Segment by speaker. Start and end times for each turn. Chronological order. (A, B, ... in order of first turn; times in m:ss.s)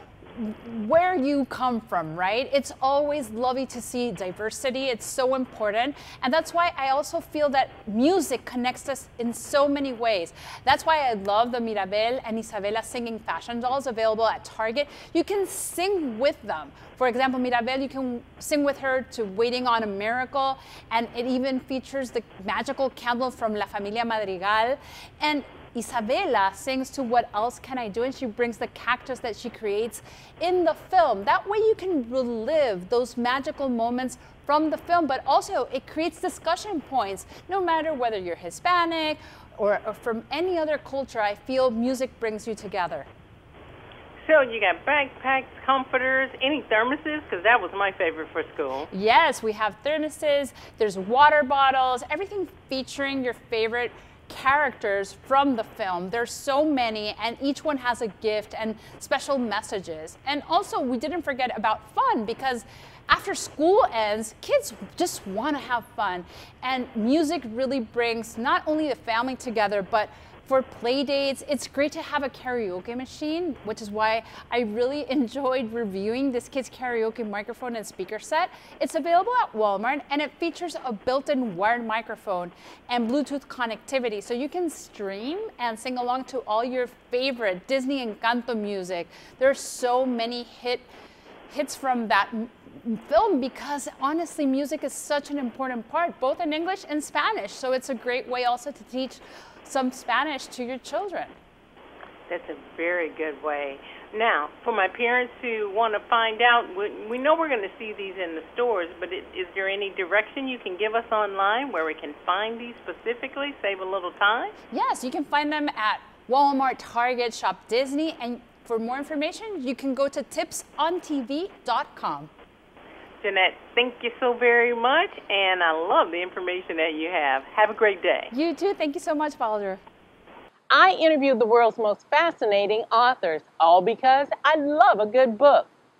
0:00.3-0:43.1 A
0:44.2-0:48.9 B
0:48.9-1:30.9 A
1:31.5-1:41.4 A
1:42.3-1:54.6 B
1:54.7-2:02.3 A
2:03.2-2:08.3 B
2:08.3-2:09.8 A
2:10.7-2:15.7 C